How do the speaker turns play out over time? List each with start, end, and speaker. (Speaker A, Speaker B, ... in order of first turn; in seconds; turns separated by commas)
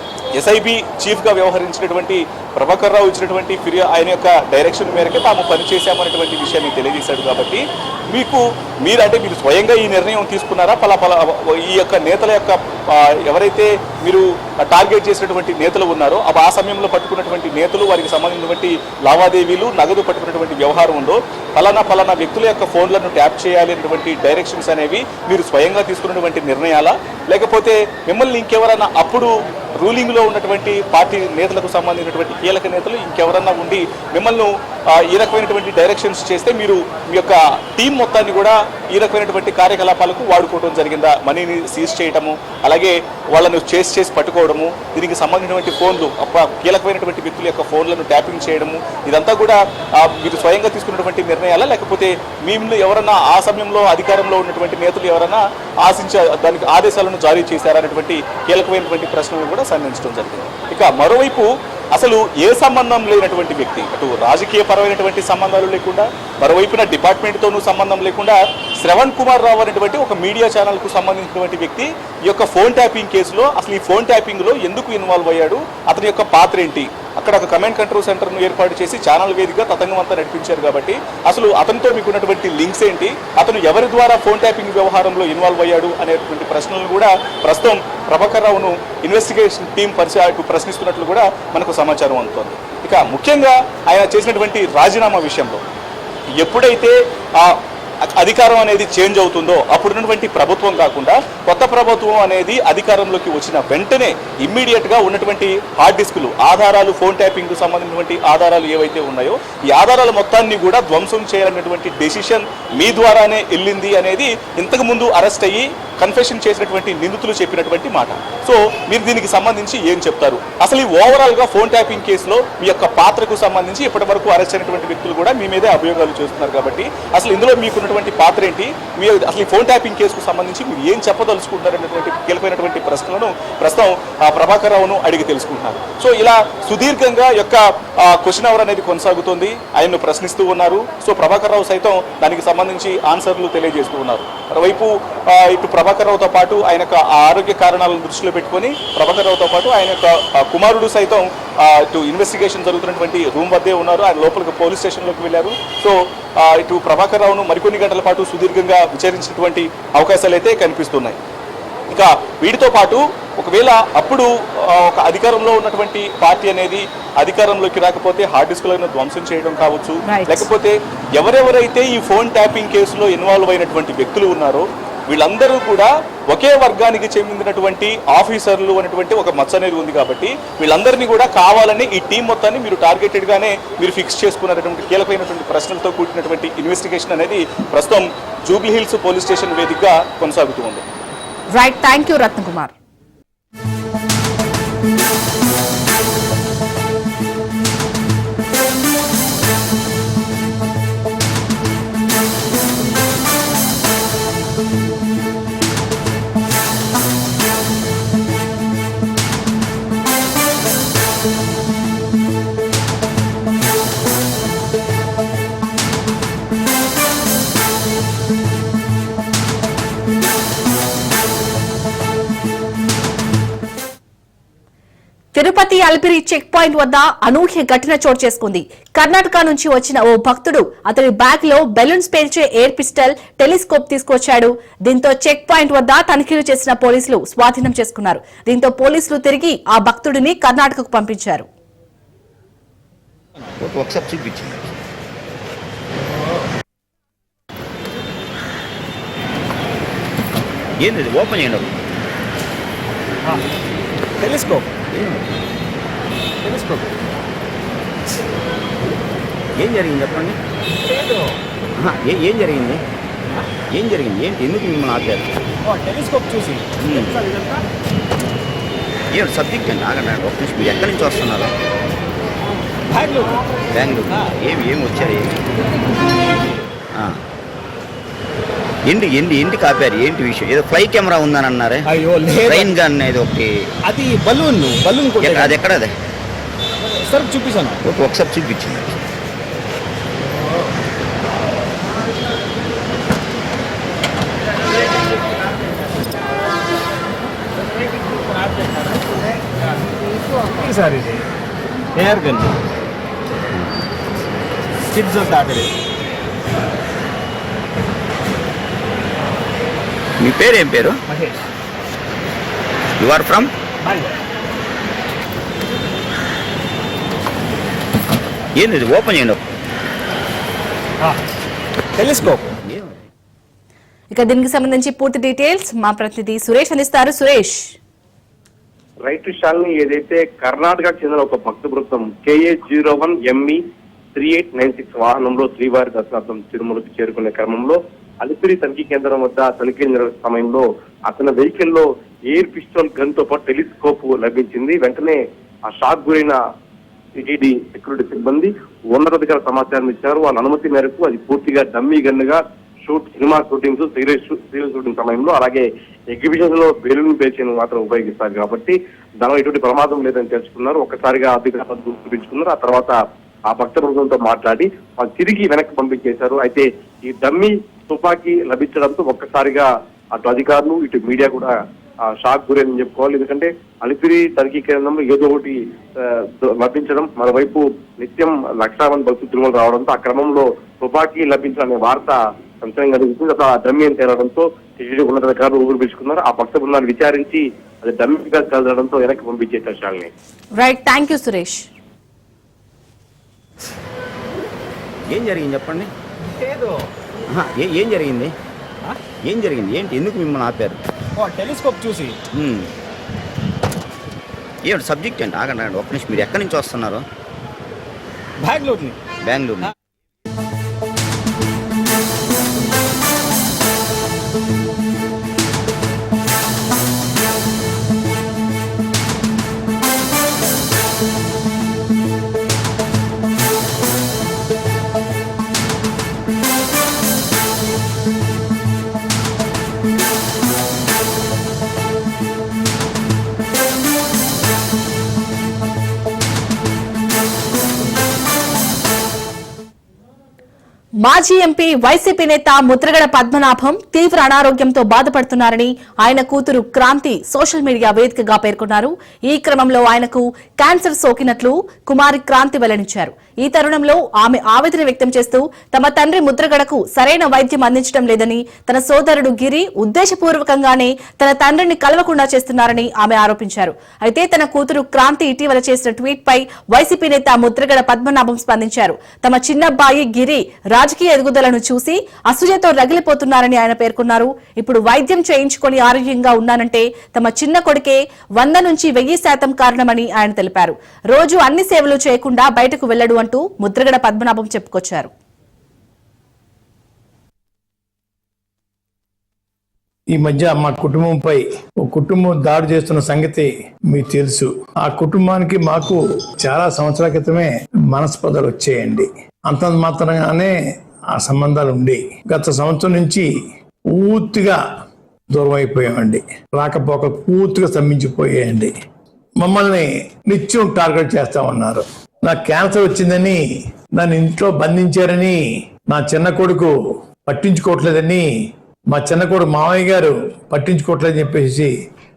Speaker A: 0.3-95.6, Speaker A: 96.4-161.2, Speaker A: 161.9-190.8, Speaker B: 170.1-170.5, Speaker B: 191.5-192.7, Speaker B: 225.3-241.5, Speaker C: 243.6-244.7, Speaker C: 250.8-251.7, Speaker D: 254.2-254.7, Speaker C: 254.9-255.2, Speaker D: 256.4-257.0, Speaker C: 259.6-260.4, Speaker D: 260.8-261.4, Speaker C: 261.8-262.8, Speaker C: 263.7-265.3, Speaker D: 265.6-267.6, Speaker C: 266.8-267.2, Speaker C: 269.1-271.5, Speaker D: 272.9-273.4, Speaker C: 273.7-275.3, Speaker C: 276.9-277.2, Speaker C: 278.9-281.8, Speaker D: 281.9-282.8, Speaker C: 282.4-283.7, Speaker D: 283.9-285.6, Speaker C: 285.2-285.9, Speaker D: 287.0-287.8, Speaker C: 287.8-288.9, Speaker D: 297.7-299.2, Speaker D: 300.4-301.2, Speaker D: 301.9-302.6, Speaker D: 304.9-305.7, Speaker C: 310.2-311.0, Speaker D: 311.1-311.4, Speaker C: 313.0-313.5, Speaker D: 313.8-314.1, Speaker C: 318.6-319.4, Speaker D: 322.0-322.5, Speaker C: 322.6-323.0, Speaker B: 324.1-327.7, Speaker E: 329.1-333.6, Speaker E: 334.1-346.4, Speaker E: 347.1-363.0, Speaker E: 363.5-371.5, Speaker E: 372.1-390.1, Speaker B: 390.6-391.7, Speaker C: 395.1-395.9, Speaker D: 396.3-396.9, Speaker C: 397.3-398.3, Speaker C: 399.2-400.8, Speaker D: 401.2-402.2, Speaker C: 402.3-402.7, Speaker C: 404.6-407.0, Speaker D: 408.4-409.0, Speaker C: 409.2-409.7, Speaker B: 441.0-485.1, Speaker F: 490.1-500.6, Speaker F: 501.1-503.3, Speaker F: 503.9-504.6, Speaker F: 505.3-508.7, Speaker F: 509.4-513.4, Speaker F: 514.0-516.7, Speaker F: 517.3-518.3, Speaker F: 518.9-521.7